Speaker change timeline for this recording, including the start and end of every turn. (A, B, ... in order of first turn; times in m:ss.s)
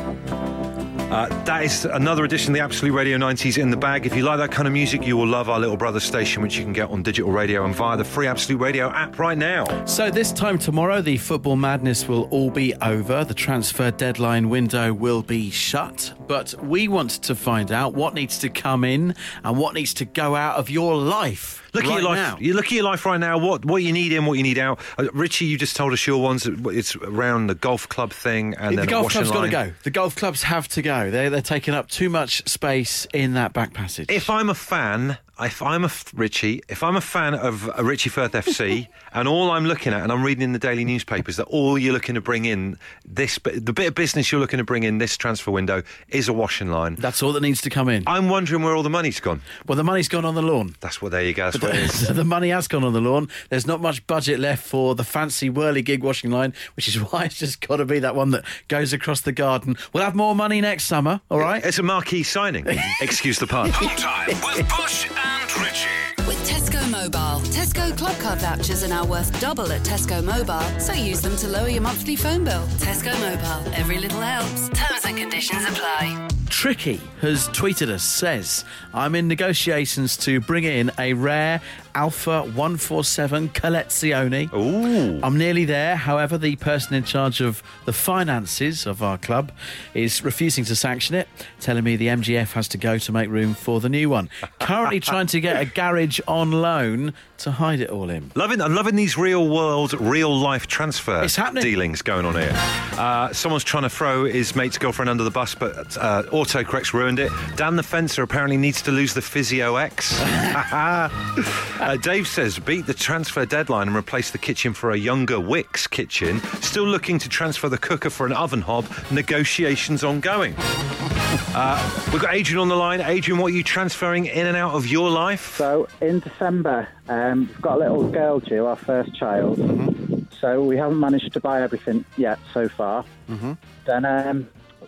0:01.1-0:09.8 A
0:09.8-0:22.4 B
0:21.7-0:29.6 A
0:28.7-0:34.3 B
0:34.1-0:47.0 A
0:47.0-0:48.1 B
0:48.1-0:49.5 A
0:49.6-0:50.8 B
0:50.8-0:52.0 A
0:51.5-1:01.7 B
1:01.4-1:03.8 A
1:02.7-1:03.8 B
1:03.7-1:06.1 C
1:06.2-1:16.2 D
1:16.5-1:24.5 B
1:24.5-1:25.3 A
1:25.2-1:38.3 B
1:38.4-2:00.6 A
1:41.2-1:41.7 B
2:01.5-2:05.6 A
2:05.6-2:13.1 E
2:13.3-2:13.6 B
2:13.8-2:14.5 E